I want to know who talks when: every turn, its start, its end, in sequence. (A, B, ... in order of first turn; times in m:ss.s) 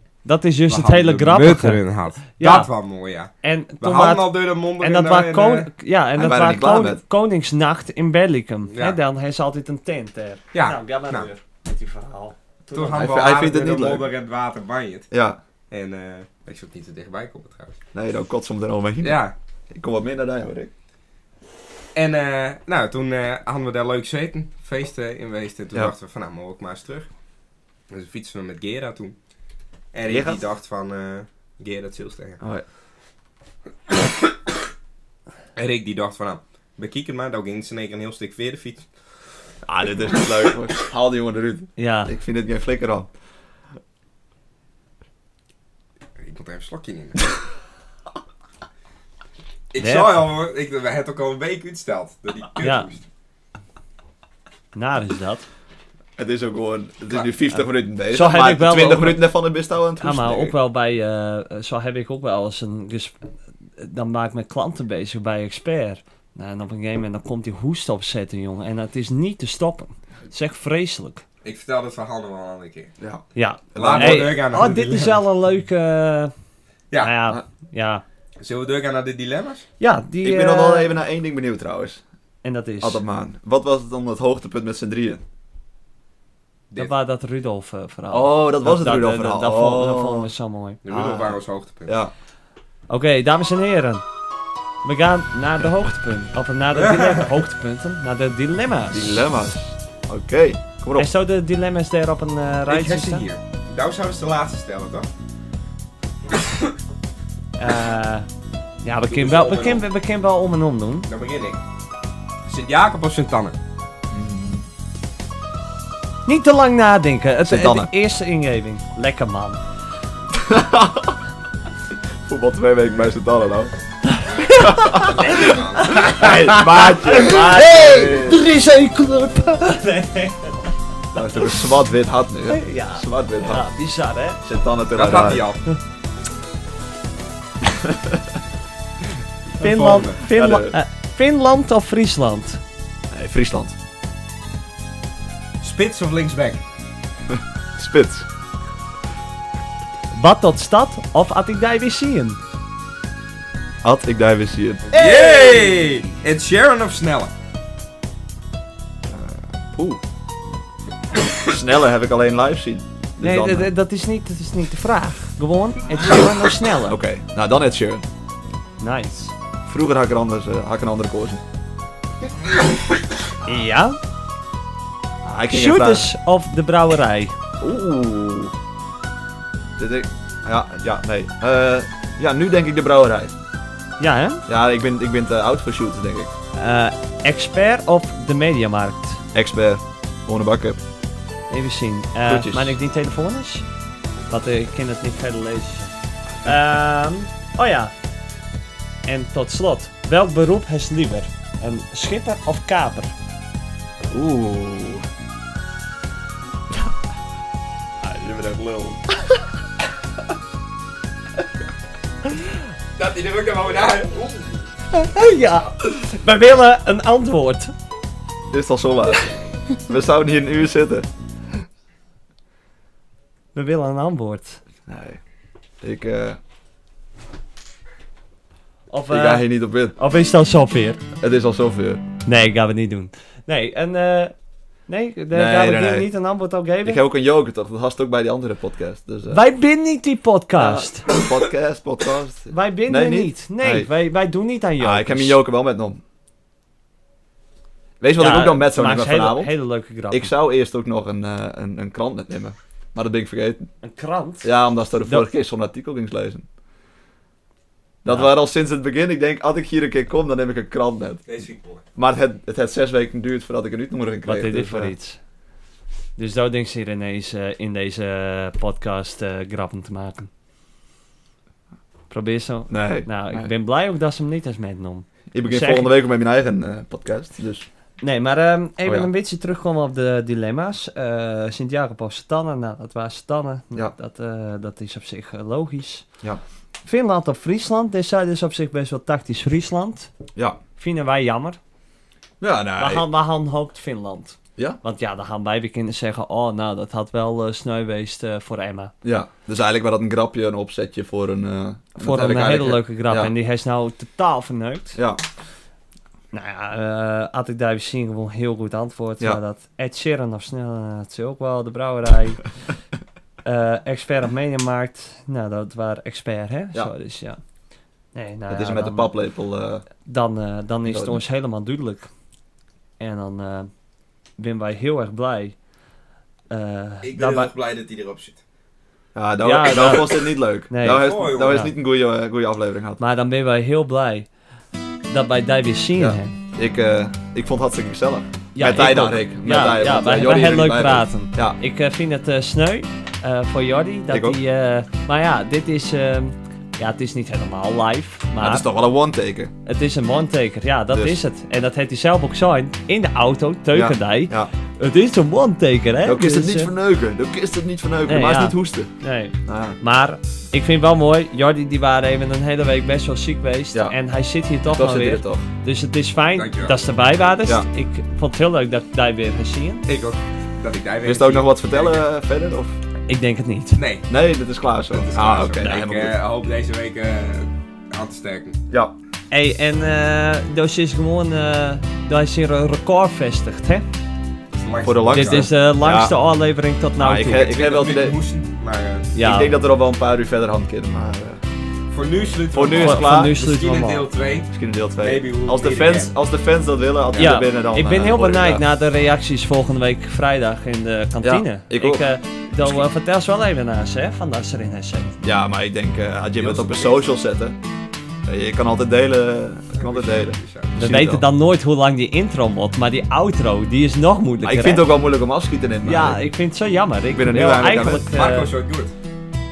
0:00.2-0:02.7 A
0:00.7-0:05.7 B
0:03.4-0:04.3 A
0:04.8-0:13.0 A
0:06.2-0:07.0 C
0:08.7-0:09.0 B
0:10.5-0:11.3 B
0:12.7-0:15.1 B
0:12.9-0:14.1 C
0:15.1-0:15.4 C
0:15.7-0:17.8 B
0:17.9-0:20.7 C
0:19.0-0:19.4 B
0:22.0-0:27.1 B
0:27.9-0:29.2 B
0:29.9-0:32.4 B
0:30.1-0:30.4 C
0:35.6-0:38.9 B
0:39.6-0:43.1 C
0:41.8-0:42.1 A
0:46.2-0:47.3 B
0:49.7-0:53.0 B
0:49.8-0:50.2 A
0:52.6-0:52.9 A
0:54.7-0:55.5 A
0:56.2-1:00.6 C
0:58.1-0:59.3 A
1:00.0-1:03.2 A
1:03.8-1:11.2 A
1:11.4-1:12.9 B
1:13.0-1:14.4 C
1:13.4-1:16.3 A
1:13.8-1:15.2 B
1:17.0-1:18.0 A
1:18.4-1:19.7 B
1:19.8-1:21.0 A
1:20.2-1:22.0 C
1:22.4-1:23.0 A
1:22.8-1:25.2 C
1:26.8-1:30.8 A
1:28.1-1:30.3 C
1:30.8-1:32.0 B
1:30.9-1:32.1 C
1:32.9-1:34.0 A
1:34.8-1:39.2 A
1:36.8-1:37.3 B
1:38.9-1:41.1 C
1:41.0-1:43.3 A
1:42.7-1:45.1 B
1:46.4-1:46.7 B
1:47.6-1:48.3 A
1:48.8-1:51.1 A
1:49.1-1:49.9 B
1:51.1-1:51.6 B
1:52.5-1:53.6 B
1:54.1-1:54.7 C
1:56.3-1:59.6 A
1:57.4-1:57.9 C
2:00.3-2:01.2 C
2:02.3-2:03.7 C
2:04.1-2:10.7 A
2:04.6-2:08.4 C
2:05.0-2:06.1 B
2:11.1-2:13.7 C
2:12.5-2:14.4 A
2:14.4-2:15.5 C
2:15.0-2:15.6 B
2:17.6-2:18.2 C
2:19.6-2:22.6 A
2:19.6-2:20.8 C
2:19.7-2:20.1 B
2:23.1-2:23.8 C
2:25.6-2:26.6 B
2:27.3-2:28.3 C
2:30.1-2:32.4 A
2:33.8-2:34.9 C
2:34.9-2:37.3 B
2:34.9-2:35.9 A
2:39.1-2:40.0 C
2:41.4-2:43.7 C
2:43.2-2:47.0 A
2:46.9-2:48.0 C
2:48.8-2:49.4 A
2:49.7-2:51.4 C
2:53.5-2:54.0 A
2:55.2-2:56.1 C
2:55.5-2:57.4 A
2:57.6-2:58.5 C
2:59.8-3:03.4 C
3:04.0-3:04.4 A
3:04.5-3:06.3 C
3:06.6-3:09.2 A
3:09.3-3:10.8 C
3:11.5-3:13.7 A
3:12.3-3:12.8 C
3:14.3-3:15.9 A
3:16.4-3:17.9 A
3:19.1-3:23.1 A
3:24.1-3:25.0 C
3:28.0-3:29.0 C
3:33.0-3:34.7 B
3:34.9-3:37.7 A
3:38.5-3:41.1 C
3:43.6-3:44.6 A
3:44.9-3:45.2 C
3:45.8-3:46.4 C
3:48.9-3:51.0 A
3:49.1-3:50.0 C
3:51.2-3:52.0 C
3:52.3-3:54.3 A
3:54.9-3:57.0 A
3:55.3-3:56.1 C
3:56.8-3:59.4 C
3:59.3-4:01.0 A
4:00.6-4:03.9 C
4:02.5-4:05.4 A
4:04.8-4:06.0 C
4:08.0-4:09.5 C
4:08.2-4:10.3 A
4:10.1-4:13.7 C
4:13.8-4:14.5 A
4:14.4-4:16.5 C
4:18.0-4:21.2 C
4:18.1-4:18.4 A
4:21.3-4:21.8 B
4:22.0-4:24.9 C
4:24.2-4:25.2 A
4:26.2-4:30.3 A
4:32.1-4:35.9 A
4:32.7-4:33.5 C
4:35.3-4:37.7 C
4:38.0-4:46.1 A
4:38.8-4:39.1 C
4:46.8-4:50.1 A
4:50.8-4:51.6 A
4:52.4-4:53.1 C
4:52.8-4:58.9 A
4:59.0-5:03.3 C
5:02.0-5:05.0 A
5:05.0-5:05.2 C
5:06.3-5:12.4 A
5:13.4-5:17.4 A
5:18.2-5:19.1 A
5:18.5-5:19.8 C
5:20.0-5:22.1 A
5:20.9-5:21.2 C
5:23.0-5:23.7 A
5:24.4-5:25.6 A
5:26.5-5:27.5 A
5:27.0-5:28.4 B
5:29.2-5:33.0 C
5:29.4-5:31.7 A
5:30.8-5:31.6 B
5:33.0-5:34.3 A
5:35.1-5:36.3 A
5:36.0-5:41.6 C
5:38.6-5:48.6 A
5:44.1-5:44.4 C
5:48.4-5:49.5 C
5:49.7-5:56.7 A
5:50.9-5:51.2 C
5:53.7-5:54.5 C
5:56.0-5:58.9 C
5:58.1-6:09.9 A
5:59.5-5:59.8 C
6:04.7-6:05.5 C
6:06.3-6:06.8 B
6:09.9-6:12.0 B
6:11.0-6:12.8 C
6:13.1-6:13.8 A
6:13.8-6:14.1 B
6:14.1-6:16.2 C
6:14.9-6:18.6 B
6:18.7-6:19.0 C
6:19.3-6:23.9 A
6:24.5-6:25.5 B
6:24.8-6:26.2 C
6:25.1-6:27.4 A
6:27.0-6:28.2 C
6:27.2-6:29.1 B
6:29.2-6:29.6 A
6:29.2-6:31.4 C
6:31.9-6:34.5 B
6:32.5-6:33.4 C
6:32.8-6:34.1 A
6:34.5-6:38.6 C
6:35.0-6:36.1 B
6:37.2-6:45.2 A
6:41.2-6:42.1 C
6:45.2-6:47.6 C
6:46.4-6:47.1 B
6:48.3-6:51.2 C
6:49.7-6:50.7 B
6:50.8-6:54.9 A
6:54.4-6:56.2 C
6:55.8-6:58.5 A
6:57.1-6:58.1 C
6:58.1-6:58.9 B